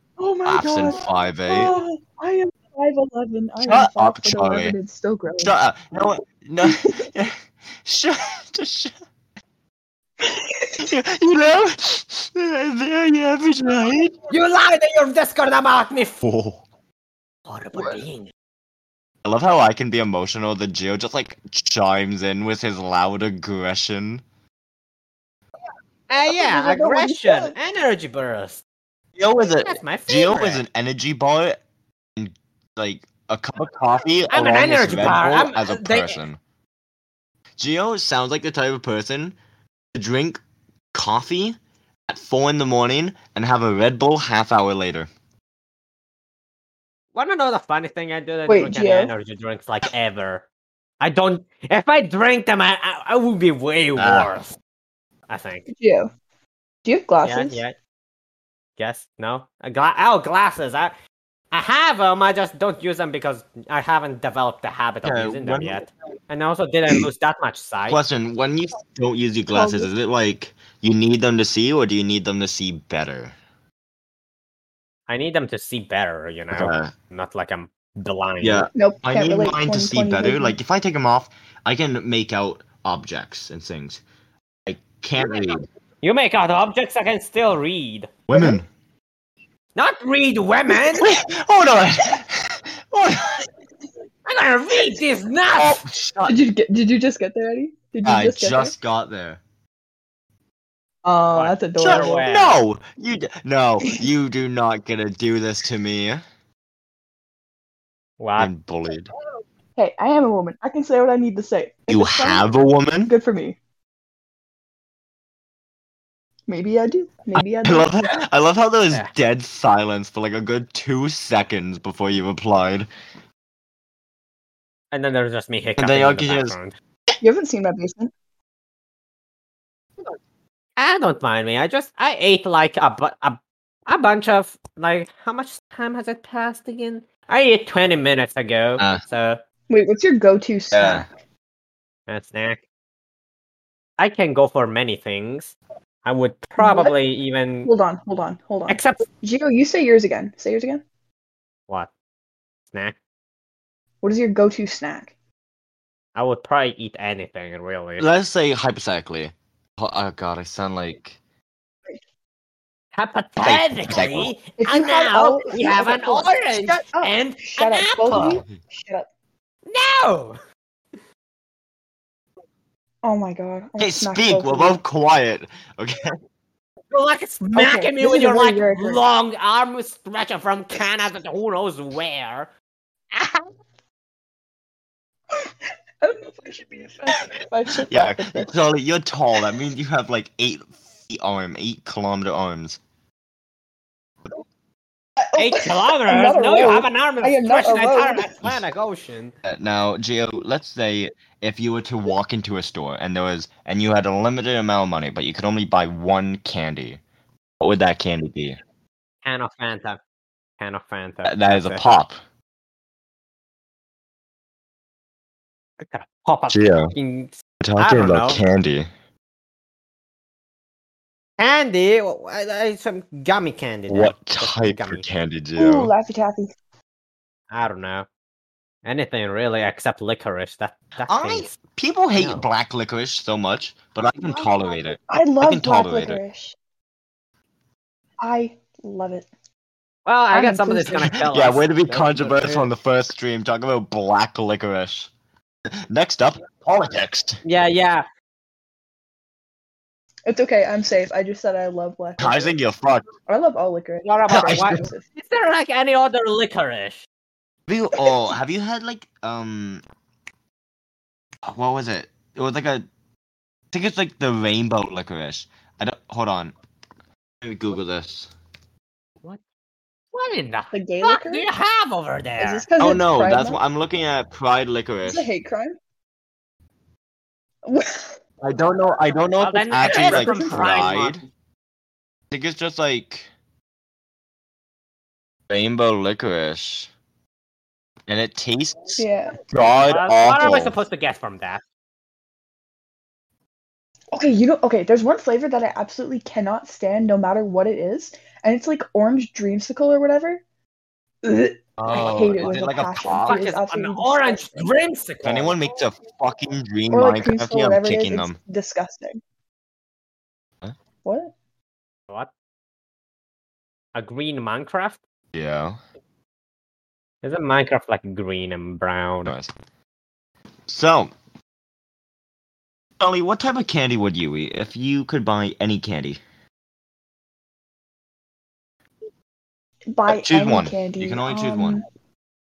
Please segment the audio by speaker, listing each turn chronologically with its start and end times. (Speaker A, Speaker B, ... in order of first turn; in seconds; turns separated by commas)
Speaker A: 0.2-5.5, Speaker B: 0.5-1.7, Speaker B: 3.6-4.8, Speaker B: 5.4-8.9, Speaker A: 10.2-10.7, Speaker B: 10.8-14.2, Speaker C: 14.3-16.2, Speaker B: 16.2-16.6, Speaker C: 17.5-18.3, Speaker A: 17.8-18.0, Speaker B: 19.2-24.2, Speaker C: 26.1-28.6, Speaker A: 26.3-27.6, Speaker B: 29.2-31.6, Speaker C: 29.6-30.6, Speaker B: 32.2-36.4, Speaker C: 34.3-36.2, Speaker B: 37.6-39.4, Speaker B: 39.9-40.4, Speaker B: 40.9-41.6, Speaker B: 42.1-45.1, Speaker C: 47.1-50.5, Speaker A: 48.5-49.1, Speaker C: 51.0-54.6, Speaker B: 54.0-54.3, Speaker C: 55.3-55.6, Speaker A: 55.7-56.1, Speaker A: 56.9-57.6, Speaker C: 57.2-57.8, Speaker C: 58.8-61.0, Speaker C: 61.5-68.0, Speaker B: 65.0-65.8, Speaker B: 67.9-73.3, Speaker A: 69.5-69.9, Speaker C: 75.1-78.7, Speaker B: 76.5-76.9, Speaker B: 78.4-84.0, Speaker A: 78.8-80.6, Speaker B: 84.7-85.7, Speaker C: 86.0-88.1, Speaker B: 88.3-88.7, Speaker A: 88.3-88.6, Speaker C: 89.8-91.1, Speaker B: 91.0-93.5, Speaker C: 94.2-95.8, Speaker B: 95.5-96.4, Speaker A: 96.3-98.7, Speaker B: 98.0-99.4, Speaker A: 101.0-102.2, Speaker C: 101.3-102.6, Speaker B: 101.8-106.2, Speaker C: 108.2-108.5, Speaker B: 108.4-109.1, Speaker A: 109.8-112.5, Speaker B: 111.9-113.1, Speaker A: 113.1-113.6, Speaker A: 116.5-118.2, Speaker B: 117.4-122.9, Speaker C: 124.9-126.7, Speaker B: 125.8-126.6, Speaker A: 127.2-128.1, Speaker C: 130.8-139.4, Speaker B: 138.8-139.0, Speaker A: 139.7-141.1, Speaker B: 140.7-141.1, Speaker C: 142.1-142.6, Speaker C: 144.0-147.7, Speaker A: 146.6-146.9, Speaker A: 147.7-150.8, Speaker C: 148.7-149.1, Speaker A: 154.0-155.1, Speaker C: 156.2-158.1, Speaker B: 158.0-161.2, Speaker C: 162.9-168.4, Speaker B: 163.4-164.3, Speaker A: 164.6-169.1, Speaker B: 168.1-168.6, Speaker C: 169.7-170.4, Speaker A: 173.0-174.8, Speaker B: 173.8-176.2, Speaker C: 176.9-182.5, Speaker A: 177.4-179.0, Speaker C: 183.1-183.4, Speaker A: 185.3-188.5, Speaker B: 187.9-192.8, Speaker A: 195.2-198.3, Speaker C: 195.3-199.3, Speaker B: 199.4-207.0, Speaker B: 207.6-208.6, Speaker C: 209.2-210.0, Speaker C: 210.6-212.0, Speaker B: 211.2-212.2, Speaker C: 215.8-218.4, Speaker B: 216.5-216.9, Speaker B: 217.6-218.9, Speaker C: 221.4-225.1, Speaker B: 223.9-225.9, Speaker A: 225.6-226.5, Speaker C: 227.5-228.1, Speaker C: 228.8-231.6, Speaker B: 231.1-236.2, Speaker C: 232.2-232.5, Speaker A: 235.1-236.6, Speaker A: 238.2-239.3, Speaker C: 240.1-242.7, Speaker A: 240.3-241.2, Speaker B: 241.1-245.1, Speaker B: 245.9-247.4, Speaker C: 247.4-248.1, Speaker A: 250.3-252.6, Speaker B: 252.2-253.1, Speaker A: 253.3-255.0, Speaker C: 254.0-257.1, Speaker B: 254.3-254.9, Speaker B: 257.7-259.8, Speaker B: 261.4-262.8, Speaker B: 263.7-266.5, Speaker B: 267.4-268.3, Speaker C: 270.1-272.7, Speaker A: 270.7-271.5, Speaker A: 272.4-273.6, Speaker B: 272.8-275.3, Speaker A: 275.1-275.8, Speaker A: 277.6-278.2, Speaker B: 278.4-281.2, Speaker C: 279.4-281.2, Speaker A: 279.9-280.8, Speaker B: 282.3-283.3, Speaker B: 285.5-286.9, Speaker B: 288.1-290.8, Speaker A: 289.0-289.3, Speaker C: 289.8-291.6, Speaker A: 294.1-300.4, Speaker A: 301.2-304.7, Speaker B: 301.8-303.5, Speaker C: 303.3-305.6, Speaker B: 305.2-308.4, Speaker A: 306.9-309.2, Speaker A: 311.0-311.3, Speaker C: 313.9-315.0, Speaker B: 315.3-315.8, Speaker C: 317.2-319.3, Speaker B: 319.2-319.5, Speaker B: 320.7-321.1, Speaker B: 323.0-326.2, Speaker A: 329.9-331.8, Speaker B: 330.1-331.8